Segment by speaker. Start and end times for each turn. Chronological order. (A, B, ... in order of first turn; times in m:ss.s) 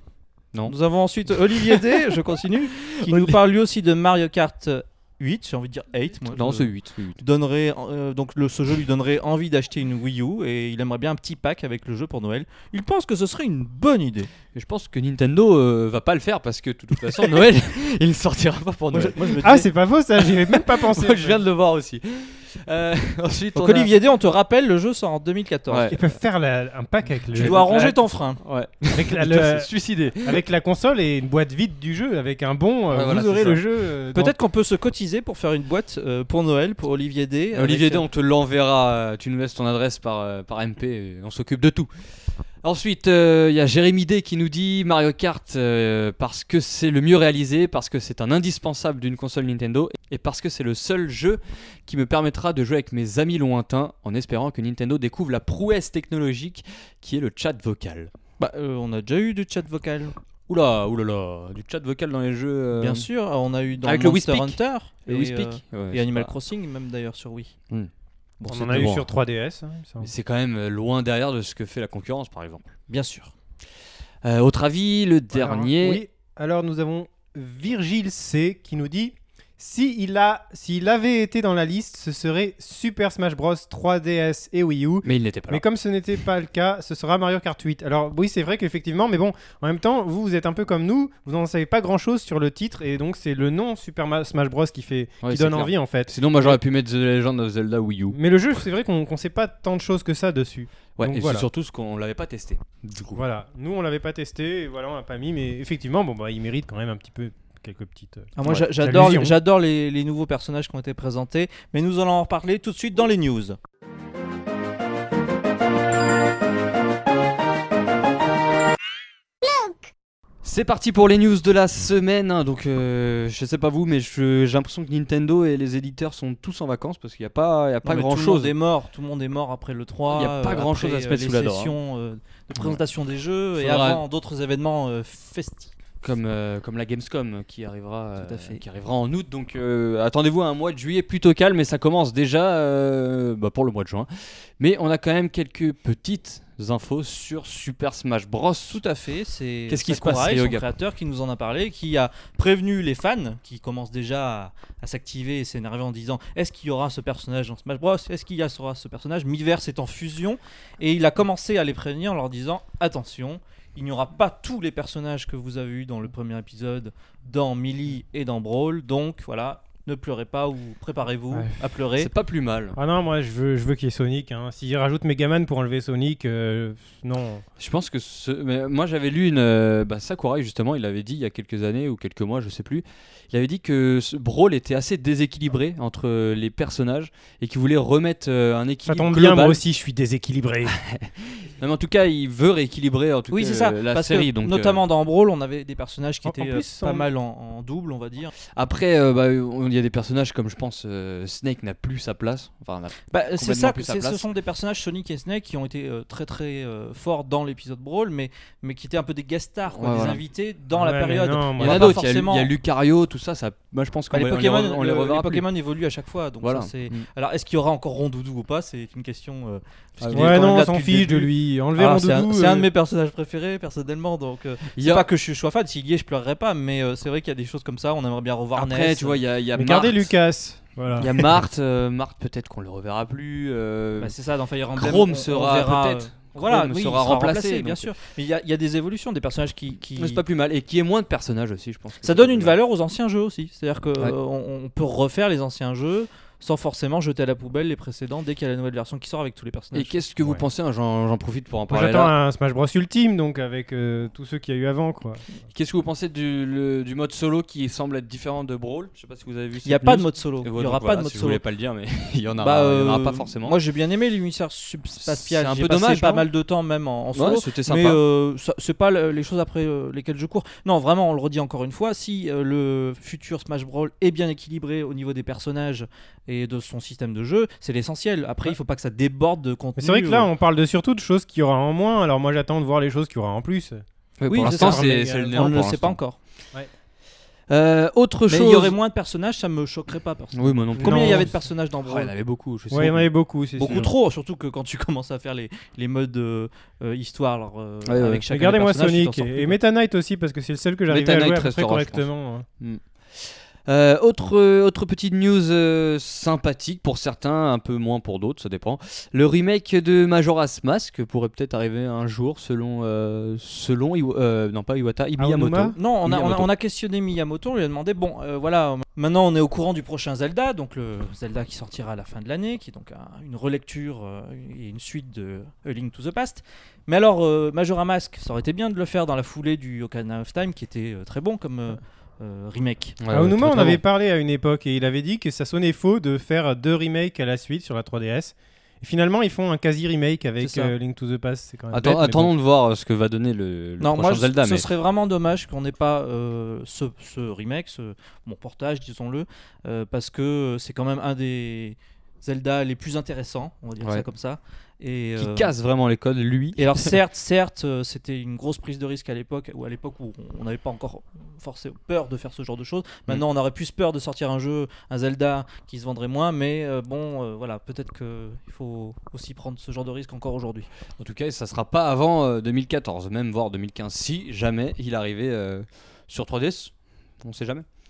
0:00.7-0:14.3 A
0:02.8-0:03.3 B
0:06.3-0:07.2 B
0:14.5-0:19.4 B
0:18.9-0:19.6 A
0:19.4-0:21.4 C
0:20.5-0:23.9 B
0:23.6-0:26.0 A
0:25.7-0:26.0 B
0:25.9-0:27.9 C
0:27.3-0:30.4 B
0:27.4-0:28.4 A
0:28.9-0:34.3 C
0:32.9-0:33.6 B
0:34.1-0:38.0 A
0:37.5-0:41.9 B
0:42.6-0:58.1 B
0:58.4-1:00.2 A
1:00.5-1:03.0 B
1:02.8-1:07.5 A
1:03.8-1:06.3 B
1:08.4-1:08.9 A
1:08.5-1:09.0 B
1:08.5-1:10.1 C
1:10.0-1:12.7 B
1:12.9-1:13.3 A
1:14.2-1:16.0 B
1:15.3-1:36.6 C
1:25.0-1:25.6 B
1:35.2-1:38.2 B
1:38.1-1:41.4 C
1:41.0-1:43.2 B
1:43.1-1:49.4 C
1:48.4-1:53.6 A
2:00.4-2:08.5 B
2:07.8-2:15.7 A
2:10.1-2:11.8 B
2:12.6-2:12.8 B
2:13.6-2:14.0 B
2:16.0-2:28.8 B
2:18.2-2:18.6 A
2:28.7-2:52.1 A
2:29.7-2:30.6 B
2:52.0-2:52.8 B
2:52.8-2:57.4 C
2:57.6-3:09.6 B
3:08.8-3:10.8 C
3:10.7-3:14.8 B
3:13.3-3:18.3 A
3:16.2-3:17.1 C
3:18.6-3:24.2 B
3:23.1-3:32.5 A
3:29.7-3:30.2 B
3:30.7-3:32.0 C
3:31.6-3:35.4 B
3:34.1-3:49.2 A
3:36.4-3:37.0 B
3:40.0-3:40.4 B
3:40.1-3:42.7 C
3:44.7-3:45.0 B
3:48.6-3:50.1 B
3:49.5-3:51.4 C
3:51.0-3:54.1 B
3:54.0-4:00.2 A
3:54.8-3:58.0 B
4:00.0-4:02.6 B
4:02.0-4:10.0 A
4:09.7-4:12.1 B
4:11.7-4:15.2 C
4:15.5-4:23.6 B
4:19.6-4:21.4 A
4:22.4-4:40.3 A
4:25.0-4:26.3 B
4:27.1-4:28.0 B
4:39.8-4:43.8 C
4:44.2-4:46.0 B
4:44.3-4:46.2 A
4:44.3-4:45.5 C
4:47.5-4:48.8 B
4:48.3-4:52.1 A
4:50.3-4:51.3 B
4:50.8-4:51.3 C
4:51.8-4:53.1 B
4:52.7-4:53.9 C
4:53.6-4:59.6 A
4:57.8-4:58.2 B
4:58.3-5:02.4 C
5:00.9-5:02.0 B
5:02.6-5:16.5 B
5:15.2-5:15.8 C
5:15.8-5:33.0 A
5:33.0-5:33.8 B
5:33.1-5:42.3 C
5:40.4-5:40.7 A
5:41.7-5:44.7 B
5:43.8-5:55.5 A
5:53.8-5:54.0 B
5:55.2-5:56.9 B
5:56.6-6:10.7 A
6:11.0-6:17.7 B